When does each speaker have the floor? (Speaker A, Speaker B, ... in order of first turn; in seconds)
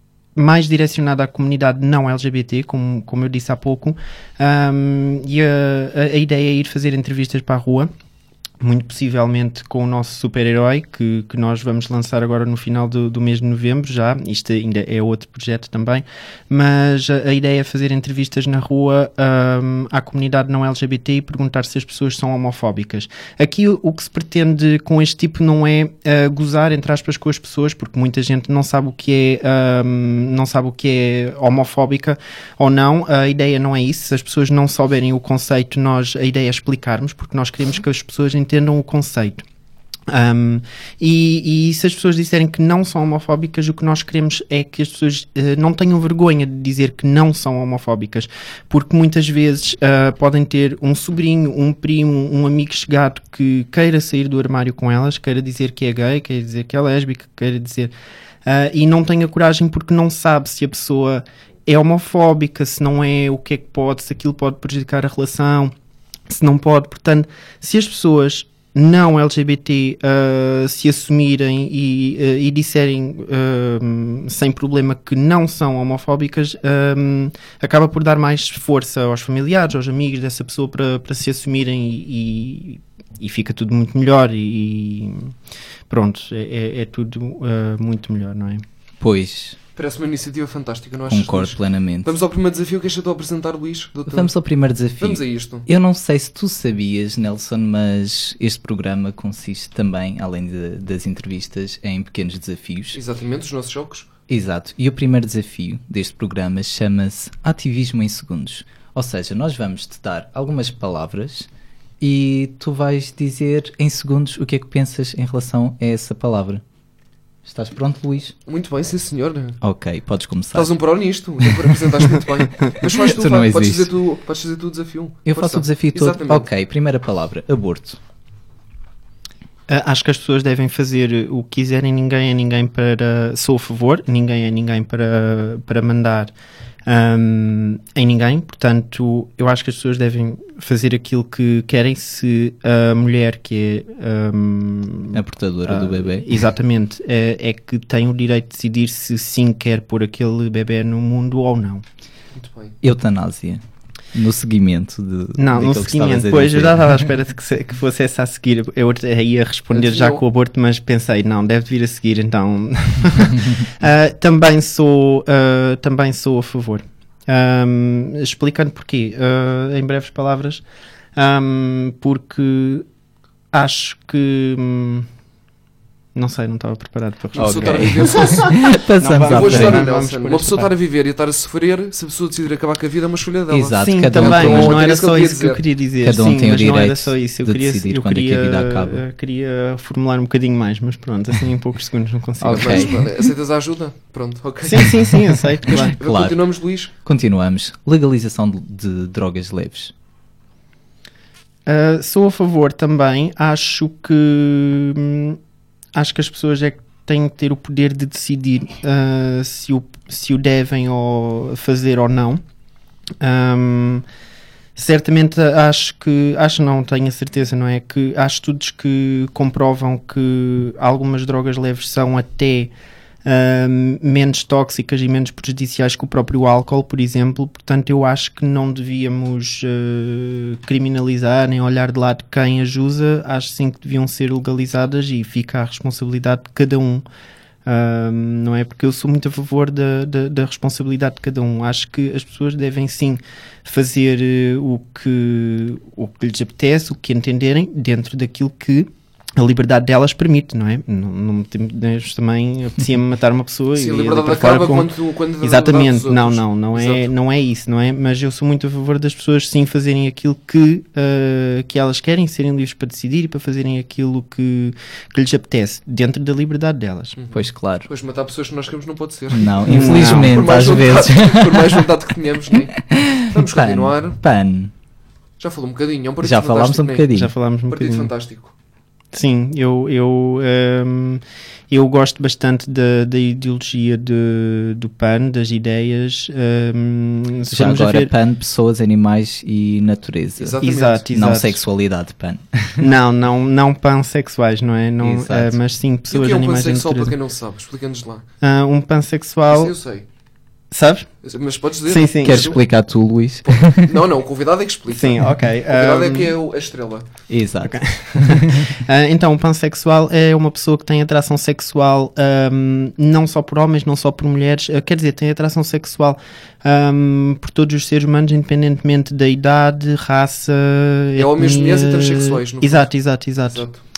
Speaker A: 0.4-7.9, 8.6-39.4, 40.1-57.9, 58.5-65.7, 66.3-85.3, 85.9-88.6, 129.7-136.3, 136.9-151.8, 155.4-170.6, 171.2-172.9, 173.5-175.1, 176.2-180.7, 183.8-193.0, 194.6-195.9, 201.7-205.4, 205.9-212.4, 213.2-214.0, 214.8-222.7, 223.2-237.0, 237.7-267.2, 269.7-270.4, 277.1-278.1, 279.1-288.1, 290.6-291.6, 292.8-297.2, 298.4-299.8, 300.7-301.2, 301.9-302.6, 304.9-306.4, 307.6-323.6
Speaker B: 89.0-89.6, 91.1-92.1, 94.1-103.0, 104.3-111.5, 112.0-116.6, 117.5-118.3, 119.6-120.7, 122.8-123.9, 125.3-128.0, 145.1-146.3, 152.8-153.6, 154.1-157.1, 177.4-179.8, 183.5-184.9, 186.0-189.0, 192.4-193.0, 195.7-199.9, 267.3-267.9, 269.3-271.9, 272.8-274.7, 276.2-277.3, 287.5-292.8, 295.0-295.6, 302.2-303.9, 307.3-308.6
Speaker C: 89.8-94.3, 95.0-95.7, 102.9-104.1, 118.5-119.6, 120.5-126.5, 152.4-152.8, 159.7-160.2, 177.3-178.6, 179.3-185.6, 192.5-196.9, 253.8-257.1, 267.2-274.2, 275.4-277.1, 277.7-278.5, 290.4-291.1, 296.1-298.3, 299.5-300.0, 301.2-302.7, 303.4-307.1, 321.2-322.9, 323.5-323.8